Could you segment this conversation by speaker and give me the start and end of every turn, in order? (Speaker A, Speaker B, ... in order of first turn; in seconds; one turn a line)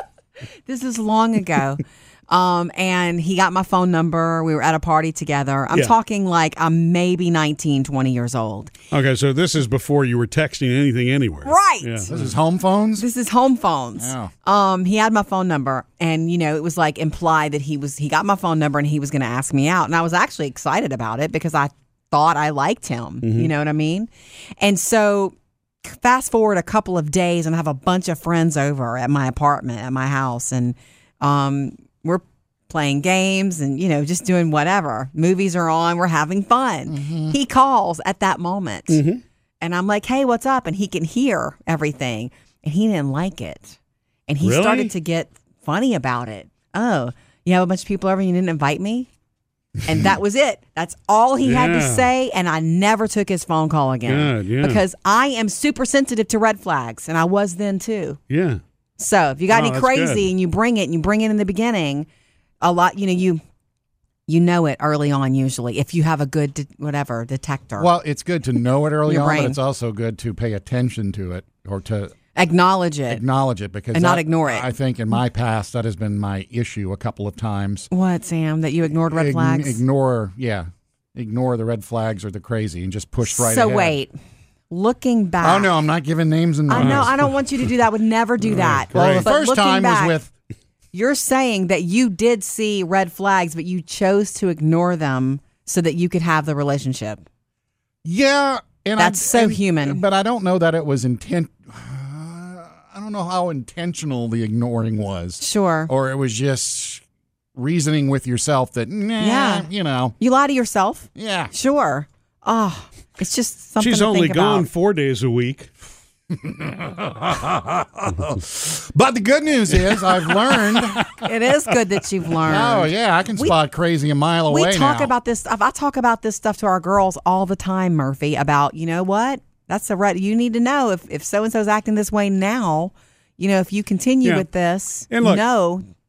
Speaker A: 0.7-8.7
Speaker B: 8.9-12.3
Speaker A: 11.4-12.1
Speaker C: 12.1-13.0
Speaker A: 13.0-39.0
Speaker C: 14.0-14.3
Speaker B: 23.2-23.5
Speaker C: 36.9-37.4
Speaker B: 38.9-39.2
Speaker A: 39.6-43.8
Speaker A: 44.3-49.1
Speaker B: 44.4-44.9
Speaker A: 49.8-58.2
Speaker B: 51.4-52.1
Speaker B: 54.1-54.8
Speaker B: 58.3-58.6
Speaker A: 59.0-62.1
Speaker B: 59.5-60.3
Speaker A: 62.6-63.4
Speaker A: 64.3-67.9
Speaker C: 67.8-72.1
Speaker A: 69.1-69.6
Speaker A: 72.3-73.2
Speaker C: 73.1-77.9
Speaker A: 73.9-74.7
Speaker A: 77.9-79.8
Speaker C: 79.1-83.9
Speaker A: 83.3-84.1
Speaker A: 84.7-85.7
Speaker C: 85.4-87.2
Speaker A: 86.7-90.2
Speaker B: 86.7-87.2
Speaker B: 88.5-89.2
Speaker C: 88.9-90.3
Speaker A: 90.9-97.2
Speaker C: 98.0-107.0
Speaker A: 99.0-100.0
Speaker A: 105.4-105.9
Speaker C: 107.6-110.2
Speaker A: 109.2-114.7
Speaker C: 111.2-111.5
Speaker B: 113.8-115.7
Speaker C: 116.3-121.3
Speaker A: 121.1-123.5
Speaker C: 122.5-125.1
Speaker A: 124.5-135.8
Speaker B: 135.1-135.4